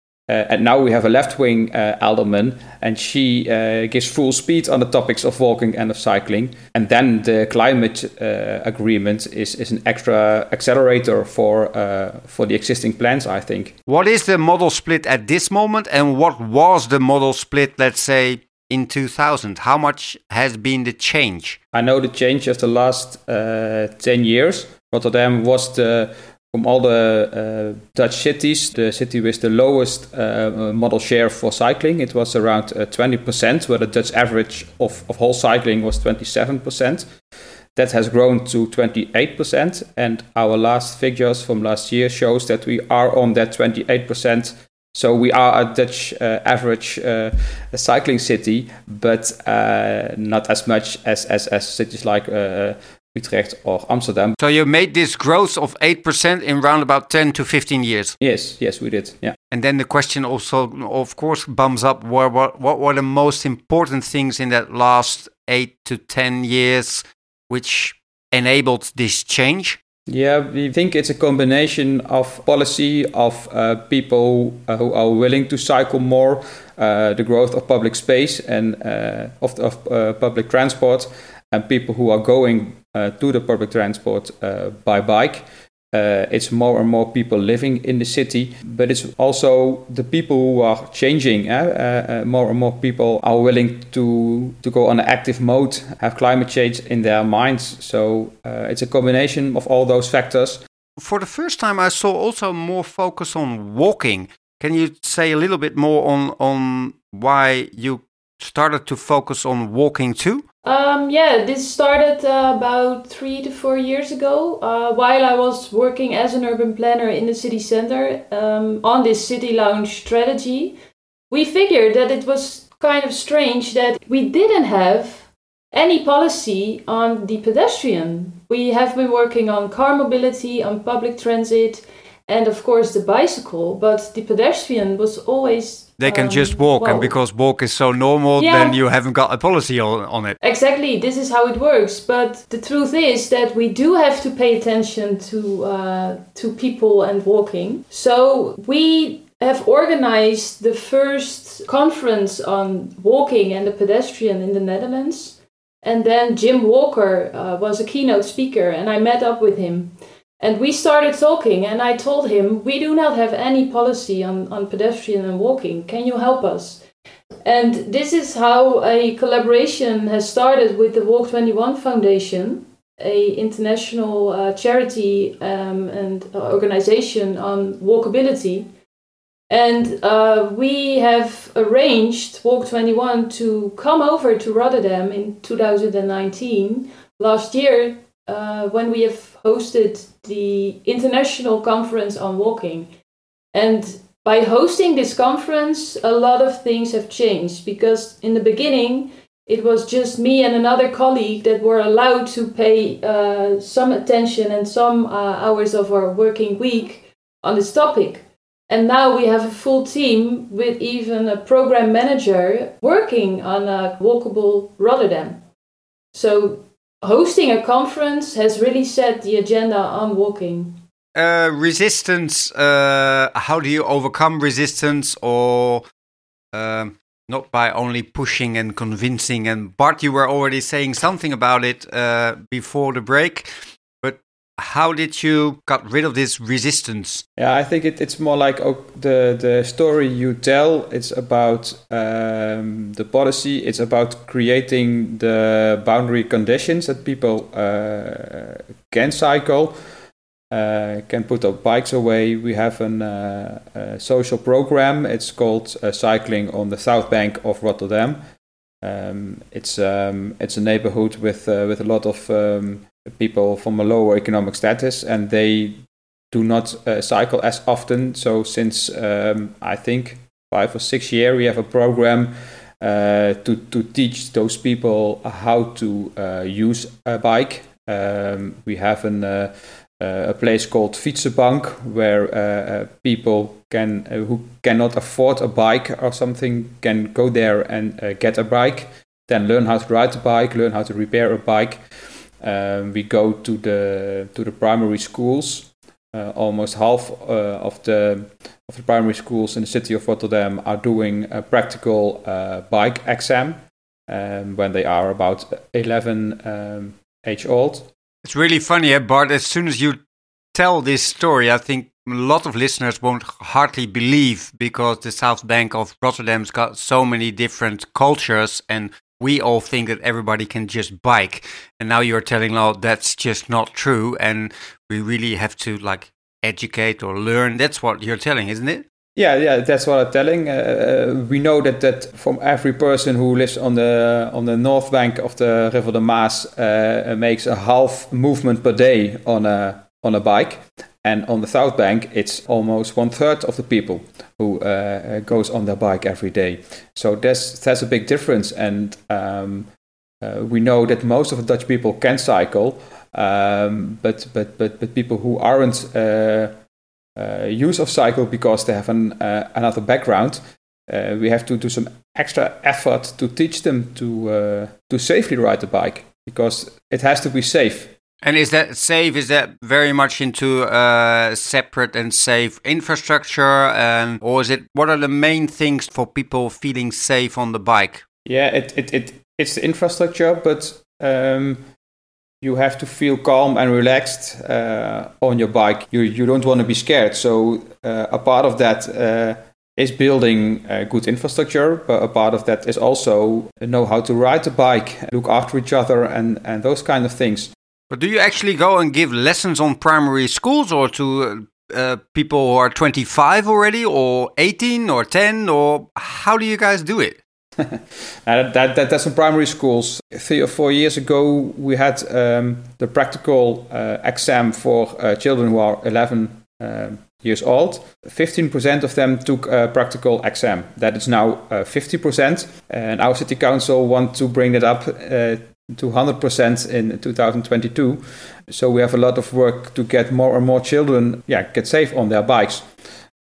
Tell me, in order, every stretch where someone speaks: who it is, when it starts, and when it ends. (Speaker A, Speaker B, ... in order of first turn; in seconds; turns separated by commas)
Speaker A: 0.3-13.8, Speaker B: 13.9-21.6, Speaker A: 21.7-37.1, Speaker A: 37.8-54.3, Speaker B: 54.4-58.2, Speaker A: 58.2-59.4, Speaker B: 59.5-69.8, Speaker A: 70.1-100.6, Speaker B: 101.0-110.4, Speaker C: 110.6-120.8, Speaker C: 121.3-137.2, Speaker B: 136.0-140.4, Speaker C: 138.4-138.8, Speaker C: 140.4-166.8, Speaker C: 167.4-178.7, Speaker C: 179.5-192.9, Speaker C: 193.5-215.4, Speaker C: 216.1-220.8, Speaker B: 221.2-225.9, Speaker B: 226.5-233.5, Speaker B: 234.0-237.2, Speaker A: 237.4-249.8, Speaker A: 250.5-258.2, Speaker A: 258.8-291.8, Speaker A: 292.4-307.9, Speaker B: 308.2-310.0, Speaker B: 310.5-328.8, Speaker A: 329.2-349.7, Speaker A: 350.2-356.6, Speaker A: 357.2-367.9, Speaker B: 368.2-378.0, Speaker A: 378.2-381.6, Speaker A: 382.4-397.5, Speaker B: 397.9-407.2, Speaker A: 407.6-432.7